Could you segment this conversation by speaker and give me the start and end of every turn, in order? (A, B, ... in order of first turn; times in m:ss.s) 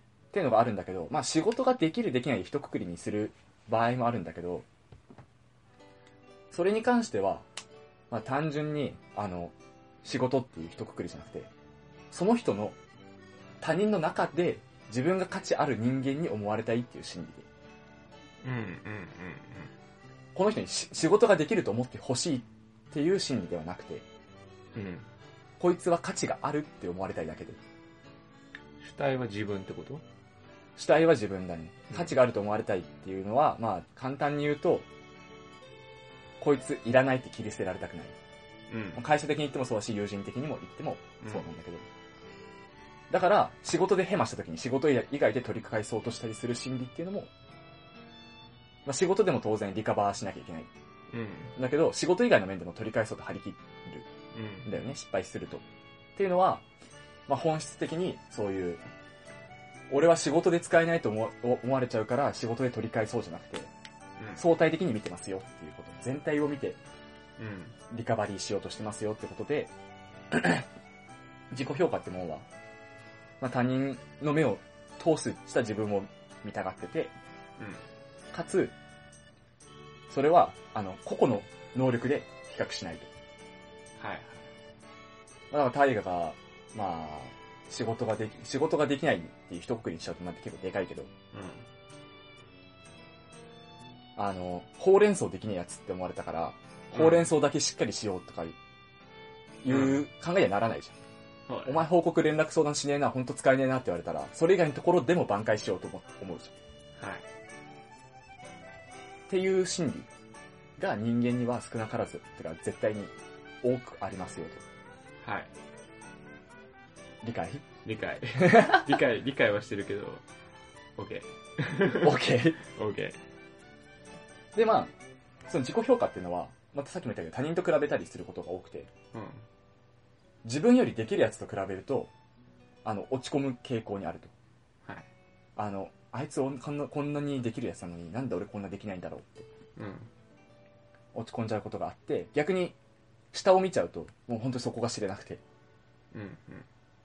0:00.3-0:04.7 A
0:06.5-0:07.5 A
0:08.1-0:11.5 A
0:12.1-0:12.8 A
0:13.6-0:17.5 A
0:18.4-0:19.7 B
0:20.3-0:24.0 A
0:24.8-0:25.1 B
0:25.6-0:27.6 A
0:28.8-0:30.0 B
0:30.8-0:34.9 A
0:36.4-0:38.2 A
0:38.7-0:39.0 B
0:39.0-0:41.9 A
0:41.2-0:41.5 B
0:43.1-0:47.3 A
0:48.8-0:50.7 A
0:51.1-0:51.6 B
0:51.6-0:54.1 A
0:54.3-0:54.8 B
0:54.6-0:55.6 A
0:56.2-0:56.6 A
0:57.3-0:58.8 A
0:59.9-1:03.7 A
1:04.2-1:04.4 B
1:04.4-1:06.8 A
1:07.4-1:07.8 B
1:07.9-1:09.7 A
1:10.3-1:10.7 A
1:11.5-1:12.5 A
1:13.4-1:17.1 A
1:17.6-1:17.8 B
1:18.3-1:18.8 A
1:20.1-1:23.1 A
1:24.0-1:24.4 B
1:25.5-1:31.1 A
1:31.3-1:31.7 B
1:34.2-1:38.6 A
1:36.9-1:37.3 B
1:39.6-1:40.9 A
1:39.7-1:40.0 B
1:41.5-1:41.9 B
1:41.7-1:46.6 A
1:47.0-1:47.2 B
1:49.3-1:50.1 A
1:50.8-1:54.6 A
1:55.2-1:55.5 B
1:57.2-1:57.6 A
1:57.8-2:00.2 B
1:58.4-1:59.0 A
2:01.0-2:03.2 B
2:02.0-2:02.6 A
2:04.5-2:04.9 A
2:05.5-2:08.9 A
2:09.1-2:09.4 B
2:10.4-2:12.1 A
2:12.8-2:14.3 A
2:15.6-2:19.5 A
2:19.8-2:20.1 B
2:21.1-2:22.8 A
2:23.3-2:25.4 A
2:26.1-2:26.7 B